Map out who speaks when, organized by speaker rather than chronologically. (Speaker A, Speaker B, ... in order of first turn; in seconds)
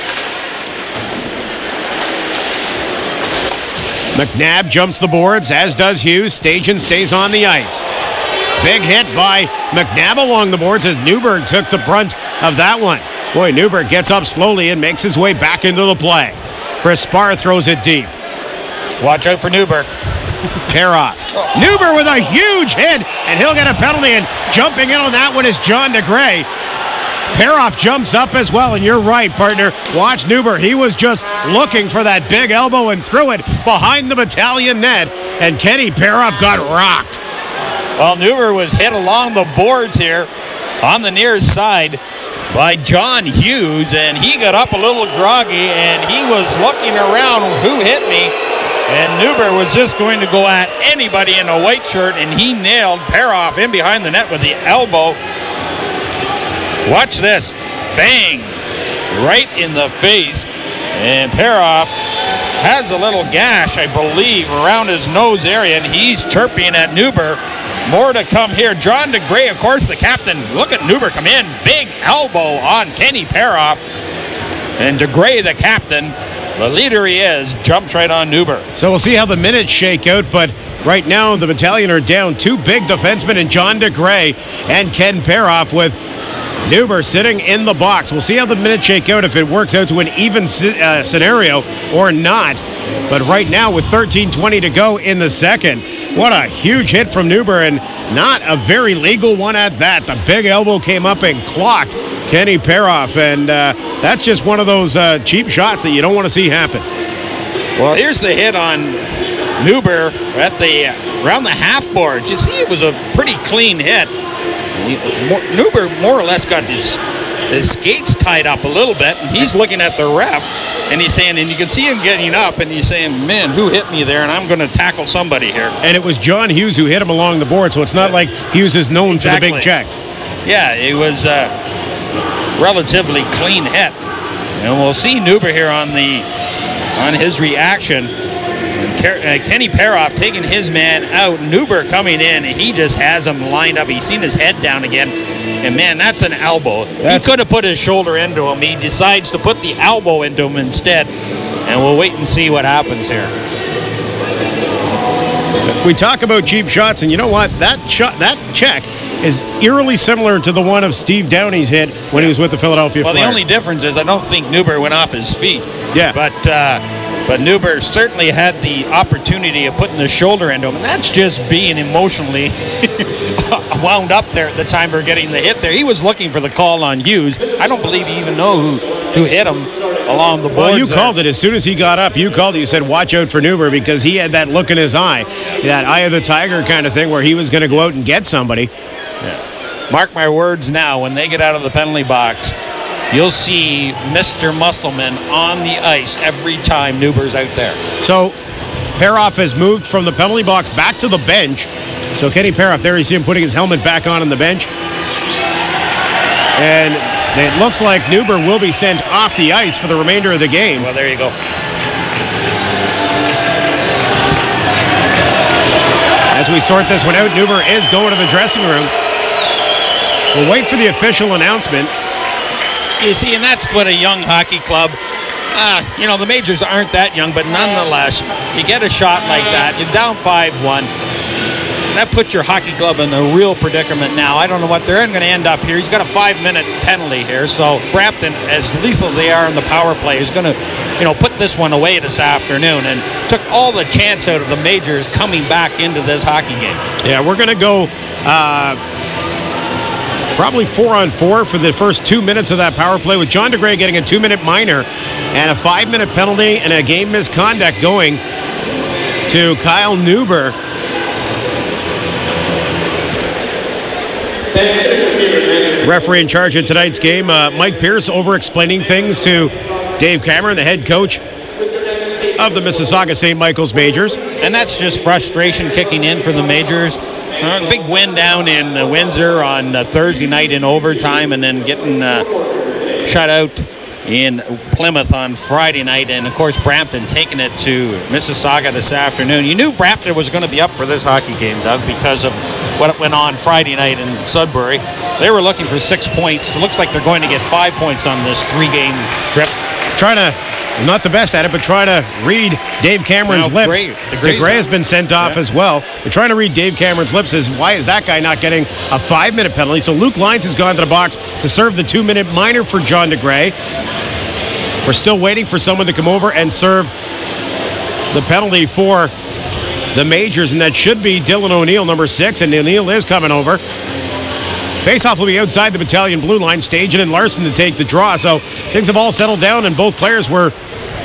Speaker A: 4.1-7.8, 8.6-18.1, 20.7-26.4, 27.3-37.2, 78.8-86.0, 86.7-106.8, 125.8-130.0, 147.0-147.3, 155.6-163.4, 180.5-188.7, 198.0-198.3, 198.9-204.7, 206.6-210.9, 216.3-218.9, 220.3-221.9, 247.0-248.8, 250.3-258.2, 259.3-260.5, 265.8-271.2, 272.4-274.2, 299.9-313.5, 314.8-316.9, 318.1-319.1, 319.9-323.6, 324.8-330.5
Speaker B: 19.0-19.9, 38.0-40.3, 40.8-48.3, 48.9-55.2, 56.8-58.6, 59.1-61.9, 62.5-73.8, 74.8-78.6, 107.8-109.0, 109.6-114.1, 114.7-125.7, 129.1-129.7, 130.4-131.5, 132.6-133.9, 134.6-136.2, 136.9-138.1, 138.7-151.1, 151.7-153.3, 163.0-181.2, 189.2-192.5, 193.1-197.8, 210.8-211.3, 223.0-225.0, 225.5-230.9, 231.9-246.8, 274.4-282.3, 283.0-299.5, 303.3-304.6